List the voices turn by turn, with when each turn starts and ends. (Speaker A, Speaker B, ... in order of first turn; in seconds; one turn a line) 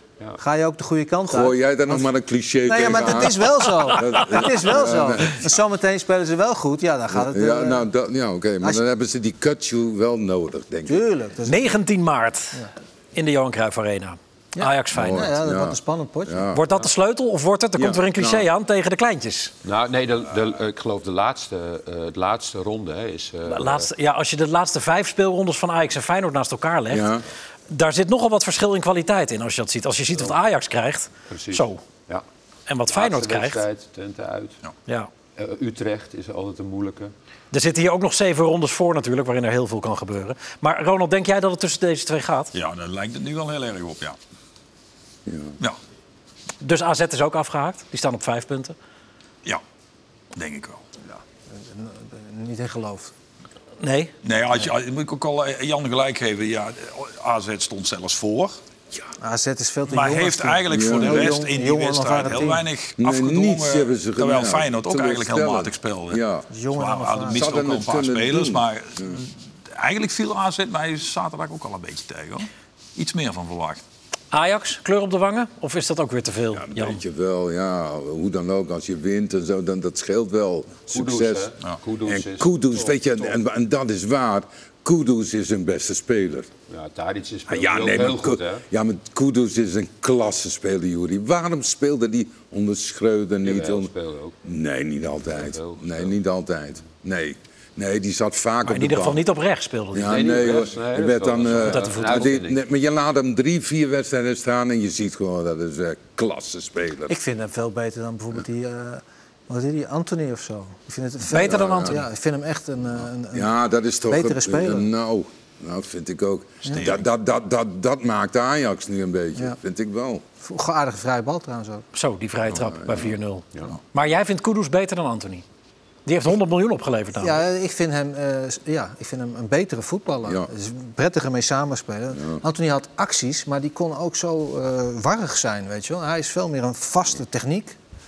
Speaker A: 0.4-2.1
Speaker B: 1.2-5.5
Speaker A: 2.6-7.8
Speaker B: 7.1-11.0
Speaker A: 10.8-11.7
Speaker C: 11.5-15.3
Speaker A: 14.6-16.5
Speaker B: 14.9-16.6
Speaker C: 16.5-19.5
Speaker B: 17.8-18.5
Speaker D: 19.6-23.9
Speaker C: 23.5-27.1
Speaker B: 26.9-27.2
Speaker C: 27.7-31.8
Speaker D: 31.3-32.2
Speaker C: 32.7-33.6
Speaker D: 32.9-34.6
Speaker D: 35.4-37.1
Speaker C: 37.5-42.5
Speaker E: 42.5-44.2
Speaker B: 45.3-45.5
Speaker C: 46.6-48.7
Speaker E: 50.3-50.8
Speaker A: 51.1-53.1
Speaker C: 53.8-54.1
Speaker E: 54.2-58.5
Speaker A: 59.2-62.6
Speaker E: 59.8-73.8
Speaker B: 60.7-61.3
Speaker B: 63.0-66.4
Speaker A: 66.5-67.5
Speaker B: 67.3-69.2
Speaker C: 74.3-77.0
Speaker B: 76.5-81.5
Speaker D: 80.9-83.4
Speaker B: 82.0-86.5
Speaker D: 86.7-88.6
Speaker B: 87.5-93.9
Speaker D: 93.4-94.3
Speaker B: 94.4-99.2
Speaker D: 95.3-96.1
Speaker C: 98.7-100.4
Speaker B: 99.9-107.2
Speaker D: 100.0-102.6
Speaker C: 101.6-102.3
Speaker A: 107.1-113.5
Speaker C: 111.3-112.0
Speaker B: 111.3-112.0
Speaker B: 113.3-120.2
Speaker A: 114.1-114.9
Speaker E: 116.7-117.0
Speaker A: 120.4-121.8
Speaker C: 121.9-125.4
Speaker B: 122.5-123.1
Speaker C: 126.0-127.4
Speaker A: 127.2-137.8
Speaker B: 132.1-132.4